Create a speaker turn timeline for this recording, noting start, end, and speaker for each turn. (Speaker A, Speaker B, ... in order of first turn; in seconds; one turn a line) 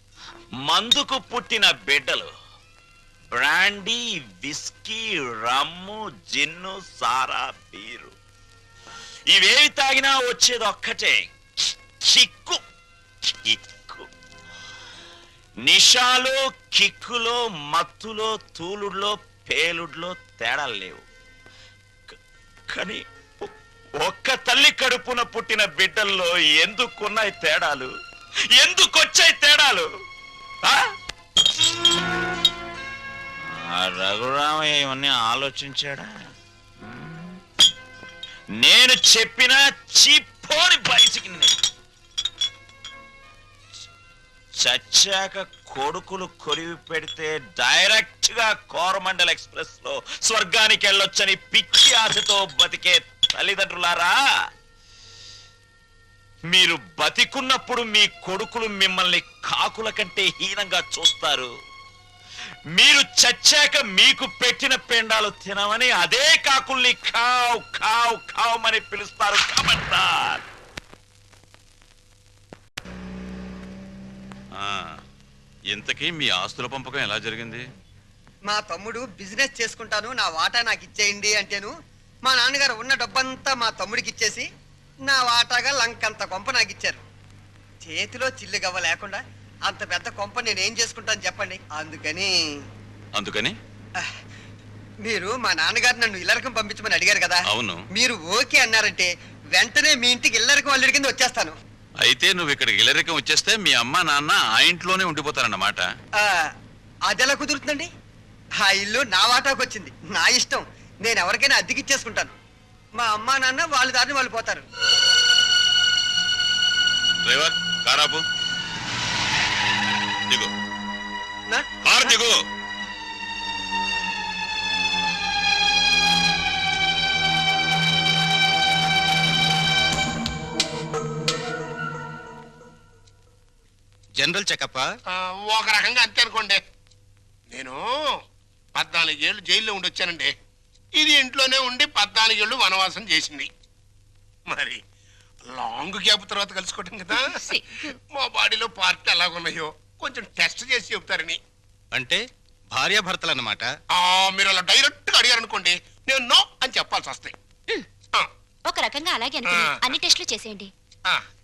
Speaker A: 0.6-2.3
Speaker A: 3.3-8.1
Speaker A: 9.3-11.3
Speaker A: 12.0-12.6
Speaker A: 13.2-14.1
Speaker A: 15.7-21.0
Speaker A: 22.7-27.9
Speaker A: 28.6-29.9
Speaker A: 33.5-36.1
Speaker A: 36.8-37.4
Speaker A: 38.6-41.5
Speaker A: 44.6-54.1
Speaker A: 56.5-61.5
Speaker A: 62.8-70.4
Speaker B: 74.6-75.0
Speaker B: 75.7-77.6
Speaker C: 78.5-81.7
Speaker C: 82.2-84.5
Speaker C: 85.1-87.0
Speaker C: 87.8-92.6
Speaker B: 93.2-93.6
Speaker C: 95.0-97.4
Speaker B: 97.5-97.8
Speaker C: 97.9-101.5
Speaker B: 102.0-105.9
Speaker C: 106.2-106.5
Speaker C: 107.1-107.9
Speaker C: 108.6-112.3
Speaker C: 113.0-114.7
Speaker B: 117.2-118.2
Speaker C: 121.5-122.2
Speaker B: 121.9-122.3
Speaker D: 134.2-134.9
Speaker E: 135.1-136.6
Speaker E: 137.5-138.2
Speaker E: 138.8-140.3
Speaker E: 141.0-143.5
Speaker E: 144.5-144.8
Speaker E: 145.5-151.4
Speaker D: 151.9-153.7
Speaker E: 153.9-157.3
Speaker F: 158.7-160.7
Speaker E: 159.4-159.8